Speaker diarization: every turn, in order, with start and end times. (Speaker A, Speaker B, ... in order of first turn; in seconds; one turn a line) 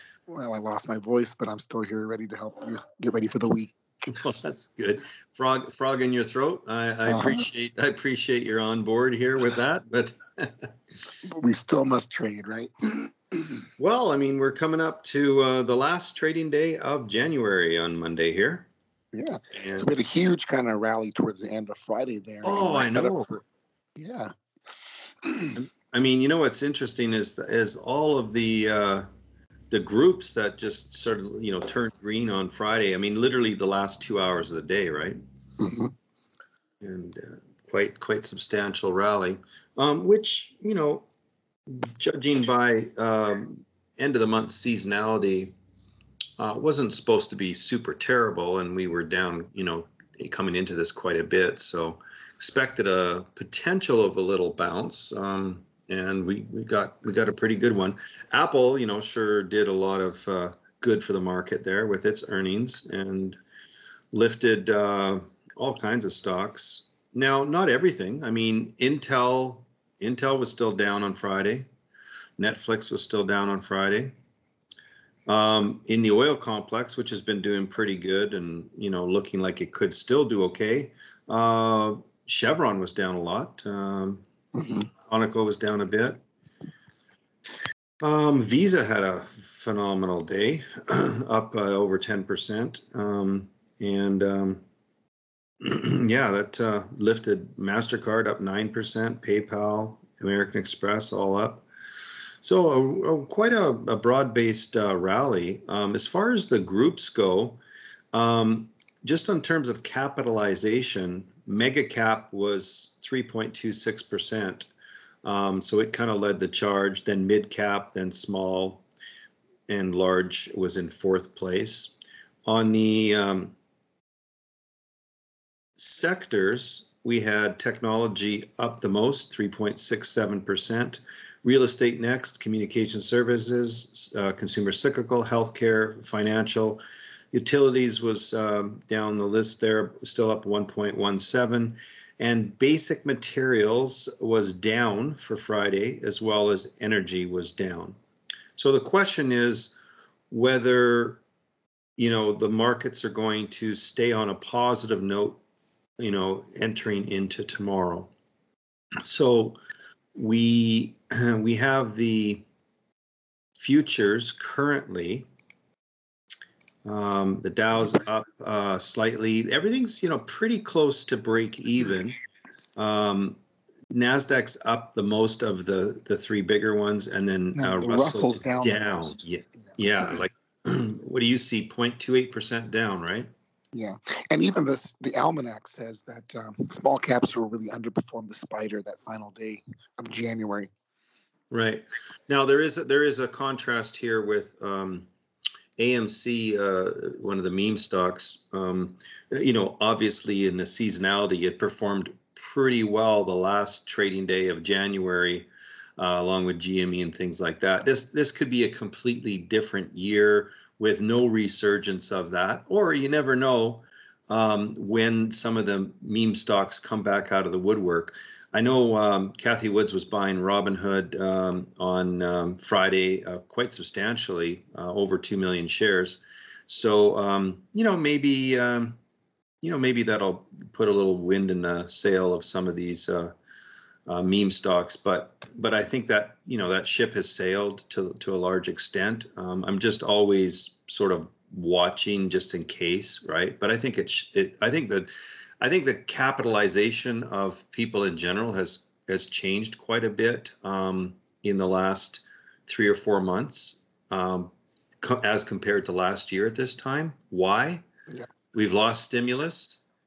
Speaker A: 0.3-3.7
Speaker B: 4.0-10.7
Speaker A: 7.1-7.5
Speaker A: 11.2-13.6
Speaker B: 13.8-18.7
Speaker A: 19.1-23.4
Speaker B: 19.5-19.9
Speaker B: 22.4-23.3
Speaker A: 24.0-24.3
Speaker A: 25.2-25.6
Speaker B: 25.6-29.1
Speaker B: 29.7-35.2
Speaker A: 35.6-35.9
Speaker B: 36.8-41.0
Speaker B: 41.7-45.5
Speaker B: 46.4-63.4
Speaker B: 64.1-71.7
Speaker B: 72.4-74.1
Speaker B: 75.2-84.2
Speaker A: 84.5-84.9
Speaker B: 85.1-86.2
Speaker B: 88.0-94.6
Speaker B: 95.6-101.6
Speaker B: 102.4-107.6
Speaker B: 108.1-114.7
Speaker B: 115.2-118.8
Speaker B: 119.7-123.5
Speaker B: 125.7-136.8
Speaker B: 137.3-147.9
Speaker B: 148.6-149.8
Speaker B: 150.3-151.2
Speaker B: 152.0-155.4
Speaker B: 156.0-158.1
Speaker B: 159.0-159.6
Speaker B: 160.1-162.4
Speaker B: 163.6-165.3
Speaker B: 166.8-172.2
Speaker B: 172.8-173.4
Speaker B: 173.9-183.3
Speaker A: 177.6-179.1
Speaker A: 183.7-190.7
Speaker B: 191.5-195.1
Speaker B: 195.8-229.0
Speaker B: 229.6-233.3
Speaker B: 234.1-245.1
Speaker B: 245.6-257.8
Speaker B: 258.5-259.8